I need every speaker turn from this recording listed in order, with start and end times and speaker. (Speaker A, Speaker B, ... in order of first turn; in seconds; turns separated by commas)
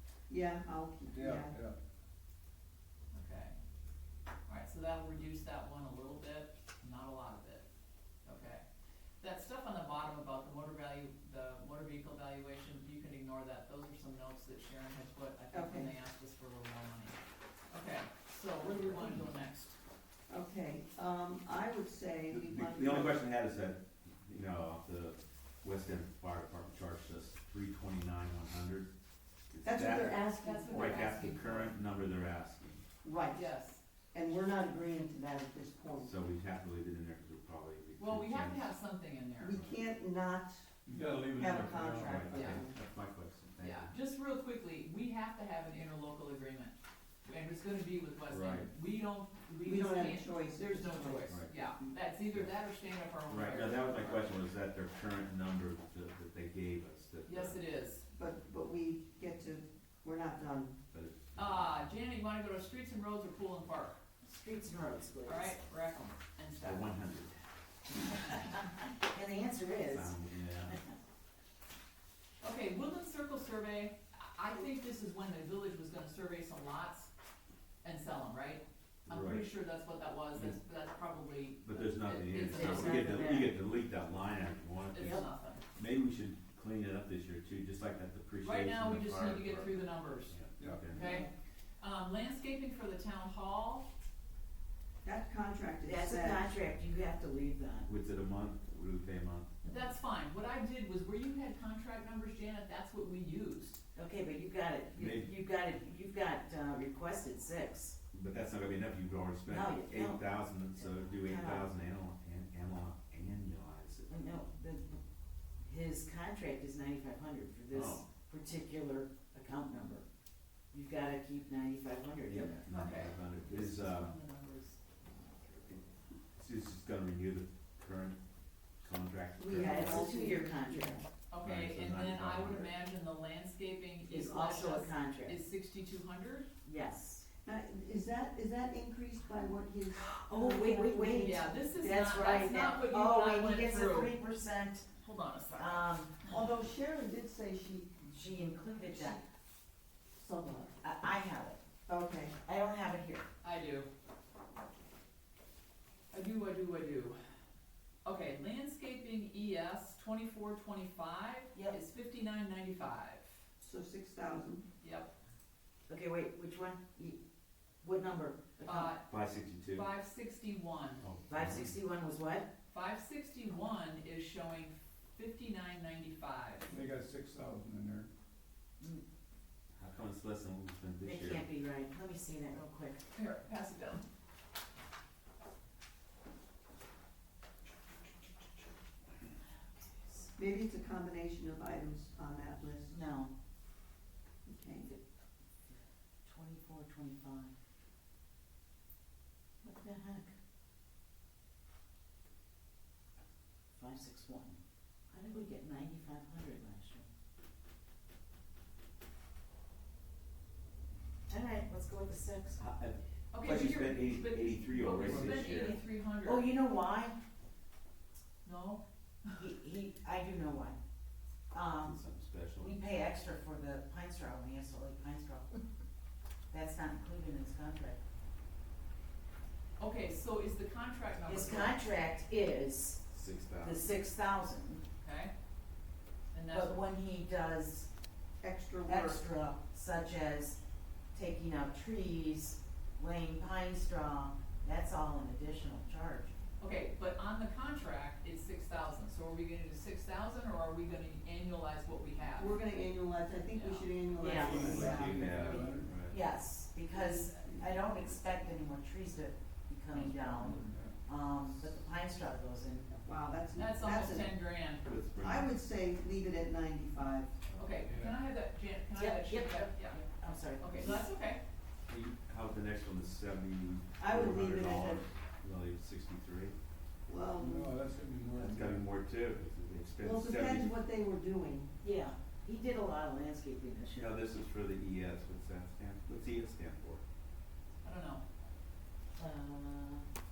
Speaker A: 0.3-1.6, Speaker B: 1.1-1.8, Speaker C: 3.1-3.5, Speaker C: 4.5-7.7, Speaker C: 8.2-8.6, Speaker C: 9.2-17.2, Speaker A: 15.5-15.9, Speaker C: 17.7-19.8, Speaker A: 18.6-19.3, Speaker A: 20.3-23.2, Speaker D: 22.3-28.9, Speaker D: 29.5-32.8, Speaker A: 29.6-31.3, Speaker C: 30.4-31.7, Speaker A: 33.0-33.5, Speaker C: 33.3-33.8, Speaker A: 34.1-36.1, Speaker D: 36.0-38.7, Speaker C: 38.0-39.6, Speaker A: 39.4-40.7, Speaker B: 40.9-42.5, Speaker A: 41.3-42.8, Speaker D: 42.1-43.9, Speaker C: 42.3-42.6, Speaker C: 43.6-46.8, Speaker C: 47.3-54.2, Speaker D: 48.3-48.7, Speaker A: 49.6-51.4, Speaker D: 51.3-51.8, Speaker D: 52.3-52.5, Speaker D: 53.3-57.6, Speaker C: 57.3-58.0, Speaker A: 58.1-60.8, Speaker D: 60.9-61.8, Speaker C: 61.4-64.0, Speaker E: 64.2-65.6, Speaker C: 65.2-66.9, Speaker D: 66.6-67.3, Speaker E: 68.2-70.1, Speaker D: 69.8-70.8, Speaker E: 70.7-70.9, Speaker C: 72.4-77.1, Speaker C: 77.8-83.3, Speaker D: 79.1-79.5, Speaker D: 81.6-91.0, Speaker E: 82.5-83.6, Speaker C: 84.9-85.6, Speaker C: 88.4-90.4, Speaker B: 90.6-90.9, Speaker C: 90.9-91.3, Speaker E: 91.0-91.3, Speaker C: 91.8-93.9, Speaker A: 95.0-96.4, Speaker E: 95.8-97.9, Speaker D: 97.8-99.5, Speaker C: 99.6-103.8, Speaker E: 104.0-108.0, Speaker D: 105.0-105.3, Speaker D: 108.1-114.1, Speaker E: 109.5-110.2, Speaker E: 110.8-111.7, Speaker E: 114.1-115.0, Speaker E: 115.6-120.1, Speaker D: 117.7-118.1, Speaker E: 120.7-122.7, Speaker D: 122.3-124.1, Speaker C: 122.7-124.8, Speaker D: 126.3-128.2, Speaker D: 128.8-130.1, Speaker A: 129.4-131.1, Speaker E: 129.5-131.1, Speaker C: 131.3-136.5, Speaker D: 131.4-132.7, Speaker E: 134.1-135.4, Speaker E: 136.7-137.3, Speaker A: 137.4-142.0, Speaker E: 139.9-144.9, Speaker C: 141.1-144.2, Speaker C: 145.0-146.3, Speaker E: 145.6-146.2, Speaker A: 146.3-148.1, Speaker E: 148.1-149.2, Speaker A: 150.2-150.7, Speaker E: 150.8-151.6, Speaker A: 151.9-152.4, Speaker E: 152.4-153.3, Speaker C: 153.4-153.9, Speaker C: 156.1-157.2, Speaker C: 158.1-163.3, Speaker A: 163.6-164.7, Speaker C: 164.8-165.1, Speaker E: 165.9-167.2, Speaker E: 167.8-168.9, Speaker C: 168.6-169.1, Speaker D: 169.1-169.9, Speaker C: 169.7-171.1, Speaker D: 171.0-171.8, Speaker E: 171.3-172.5, Speaker C: 172.7-176.7, Speaker B: 176.7-178.1, Speaker D: 179.7-181.4, Speaker E: 181.0-183.1, Speaker C: 183.2-184.0, Speaker E: 189.4-190.3, Speaker A: 190.4-193.0, Speaker E: 192.9-193.3, Speaker A: 194.5-194.9, Speaker E: 196.2-197.5, Speaker E: 199.6-200.3, Speaker E: 203.7-204.6, Speaker E: 205.1-207.1, Speaker E: 211.3-212.6, Speaker D: 212.6-215.8, Speaker C: 213.3-216.5, Speaker B: 215.0-215.7, Speaker E: 216.2-217.2, Speaker C: 218.4-219.4, Speaker E: 219.4-220.8, Speaker E: 221.5-222.0, Speaker D: 221.8-222.7, Speaker E: 222.6-225.6, Speaker E: 226.5-228.0, Speaker C: 229.8-231.8, Speaker E: 231.3-233.1, Speaker D: 233.1-233.9, Speaker E: 233.6-234.8, Speaker C: 235.0-235.3, Speaker C: 236.3-236.8, Speaker E: 236.5-237.9, Speaker A: 238.4-239.2, Speaker E: 238.9-240.6, Speaker E: 241.1-246.3, Speaker C: 246.6-252.6, Speaker A: 252.4-255.7, Speaker C: 253.5-253.9, Speaker E: 254.2-262.9, Speaker B: 254.3-256.0, Speaker D: 254.3-256.2, Speaker A: 257.0-257.6, Speaker B: 259.9-261.0, Speaker A: 262.9-264.3, Speaker C: 263.6-264.8, Speaker D: 264.8-265.5, Speaker A: 265.2-267.4, Speaker C: 267.5-270.1, Speaker B: 267.8-268.2, Speaker E: 268.9-271.1, Speaker C: 270.6-271.4, Speaker D: 271.9-276.6, Speaker A: 274.0-275.0, Speaker A: 277.1-277.8, Speaker B: 277.4-278.9, Speaker D: 278.3-280.7, Speaker A: 280.0-281.8, Speaker E: 281.8-284.1, Speaker D: 283.9-287.0, Speaker C: 287.8-288.2, Speaker E: 289.2-290.1